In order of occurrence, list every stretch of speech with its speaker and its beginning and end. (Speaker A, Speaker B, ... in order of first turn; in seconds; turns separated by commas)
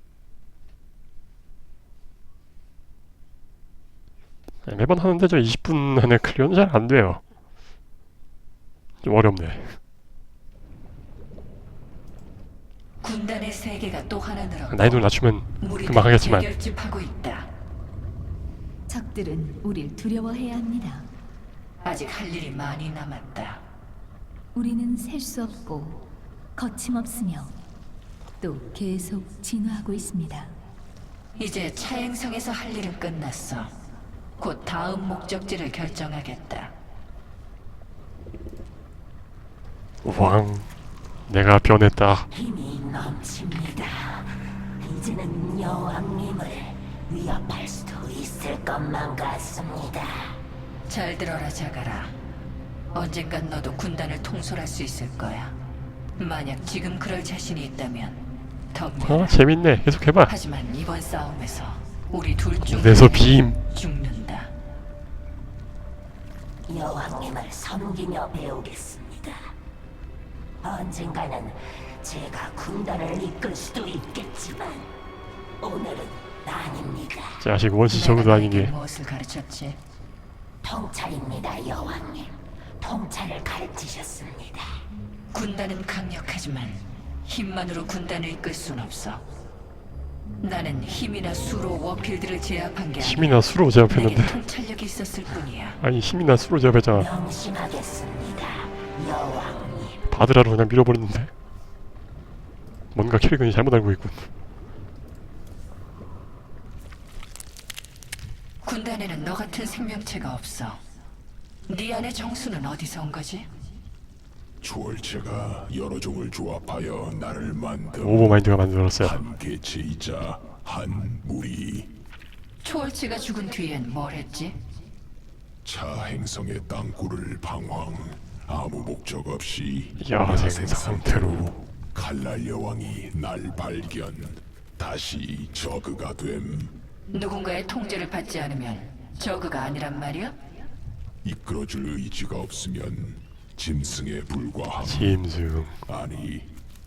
Speaker A: 4.7-7.2, Speaker A: 9.0-9.8, Speaker B: 13.0-17.5, Speaker A: 14.7-16.5, Speaker C: 18.9-21.1, Speaker B: 21.8-23.6, Speaker C: 24.5-27.6, Speaker C: 28.4-30.5, Speaker B: 31.4-33.7, Speaker B: 34.4-36.7, Speaker A: 40.0-40.7, Speaker A: 41.3-42.3, Speaker D: 42.3-50.4, Speaker B: 50.9-52.1, Speaker B: 52.9-55.6, Speaker B: 56.2-59.4, Speaker A: 59.0-60.3, Speaker B: 60.2-64.5, Speaker A: 62.6-63.6, Speaker D: 66.7-69.5, Speaker D: 70.6-74.9, Speaker D: 75.6-77.4, Speaker A: 77.4-78.7, Speaker B: 77.9-79.8, Speaker D: 80.6-84.8, Speaker B: 85.3-89.2, Speaker B: 90.4-95.8, Speaker A: 93.0-94.4, Speaker A: 95.8-97.1, Speaker D: 96.9-100.0, Speaker A: 100.1-101.3, Speaker A: 102.9-104.3, Speaker B: 108.6-110.8, Speaker B: 111.7-113.5, Speaker E: 114.6-118.4, Speaker A: 118.0-119.2, Speaker E: 119.0-122.0, Speaker B: 122.6-124.6, Speaker E: 125.6-136.8, Speaker A: 130.0-131.6, Speaker B: 137.1-140.4, Speaker E: 141.2-145.2, Speaker A: 144.8-145.8, Speaker E: 145.9-146.5